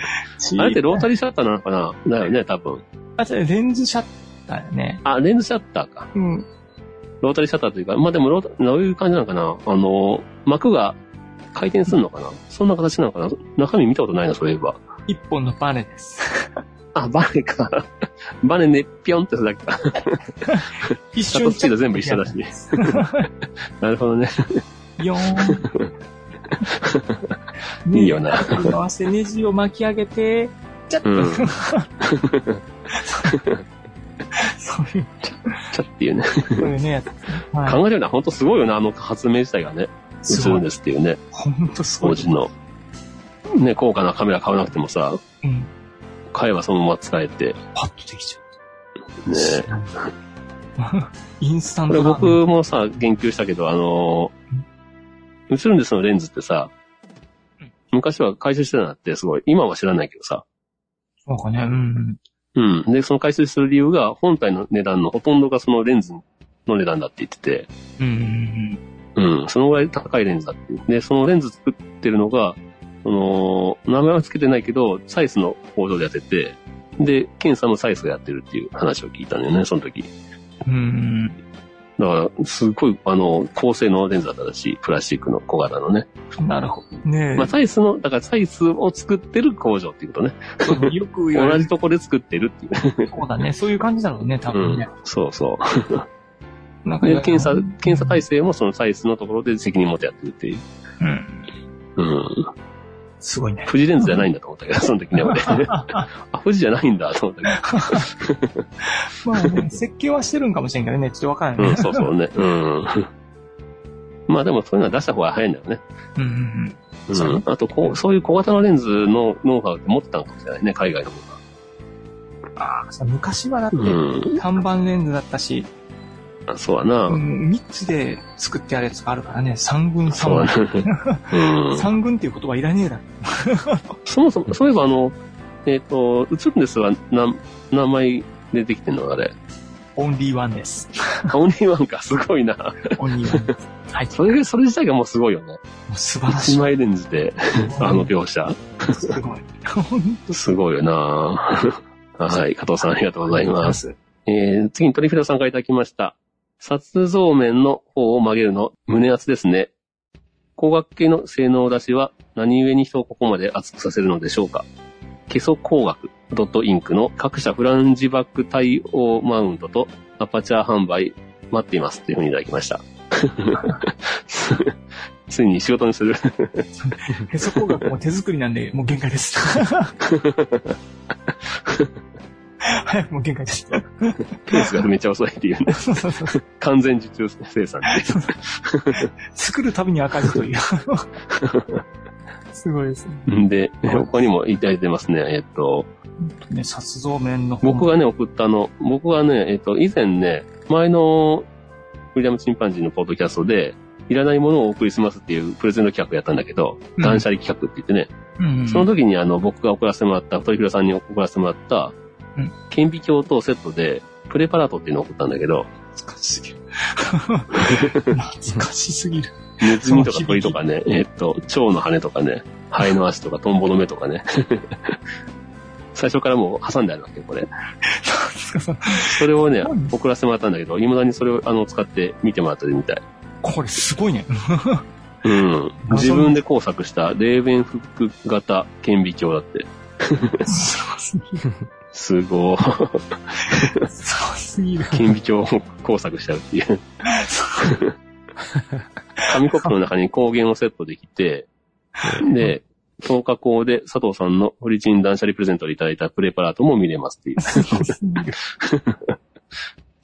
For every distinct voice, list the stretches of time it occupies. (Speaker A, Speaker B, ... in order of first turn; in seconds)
Speaker A: 0.4-1.0, 3.2-5.0, 6.1-6.5, 15.1-16.6, 20.4-23.3, 25.0-25.7, 27.9-31.9, 32.9-33.4, 34.3-35.7, 36.6-37.8, 40.2-40.6, 41.3-42.3, 45.4-45.7, 47.8-48.5, 49.3-49.9, 50.8-52.4, 61.3-62.2, 68.0-68.8, 80.7-81.4, 86.4-87.5, 90.6-91.7, 93.1-94.9, 96.8-98.2, 101.0-101.5, 103.2-104.2, 105.2-106.1, 107.5-108.1, 109.2-112.1, 116.2-118.0, 122.6-125.7, 127.1-134.0, 140.0-141.3, 143.0-144.2, 145.9-146.7, 147.7-148.1, 148.9-150.6, 153.3-153.9, 176.8-179.9, 182.6-184.7, 185.7-186.4, 187.9-188.3, 188.9-191.1, 192.5-194.2, 196.2-197.9, 207.0-207.2, 208.4-208.9, 215.9-220.6, 227.8-229.9, 233.4-234.8, 235.9-236.4, 240.4-241.5, 243.5-245.1, 247.1-247.8, 252.0-252.5, 257.4-258.4
Speaker B: 0.6-2.8, 5.0-6.1, 7.2-11.0, 11.5-14.8, 16.9-17.9, 18.4-20.2, 20.8-23.0, 23.8-24.6, 25.4-25.9, 26.8-27.2, 27.9-28.7, 31.1-31.5, 32.0-32.6, 33.3-33.6, 35.7-36.7, 37.6-41.2, 42.0-42.5, 43.6-45.2, 46.3-47.6, 49.3-50.1, 51.9-54.3, 55.5-56.7, 57.9-60.4, 62.6-67.7, 69.2-80.1, 82.0-86.1, 87.4-93.1, 94.5-96.1, 97.0-100.6, 102.0-102.5, 103.7-108.6, 111.6-113.1, 114.3-115.8, 117.1-121.4, 123.7-124.4, 126.5-127.2, 130.1-131.9, 134.1-139.3, 141.3-143.4, 144.1-145.6, 146.3-149.1, 150.3-159.7, 160.6-164.7, 165.3-174.8, 175.3-176.7, 180.1-180.7, 184.5-189.1, 191.3-191.8, 193.3-195.9, 197.6-201.5, 202.2-208.1, 208.7-211.9, 212.7-215.7, 217.6-218.0, 219.6-225.0, 225.9-227.5, 229.0-233.0, 235.2-240.4, 241.9-243.9, 244.9-246.8, 247.6-247.9, 249.3-251.5, 252.2-257.9, 258.6-259.1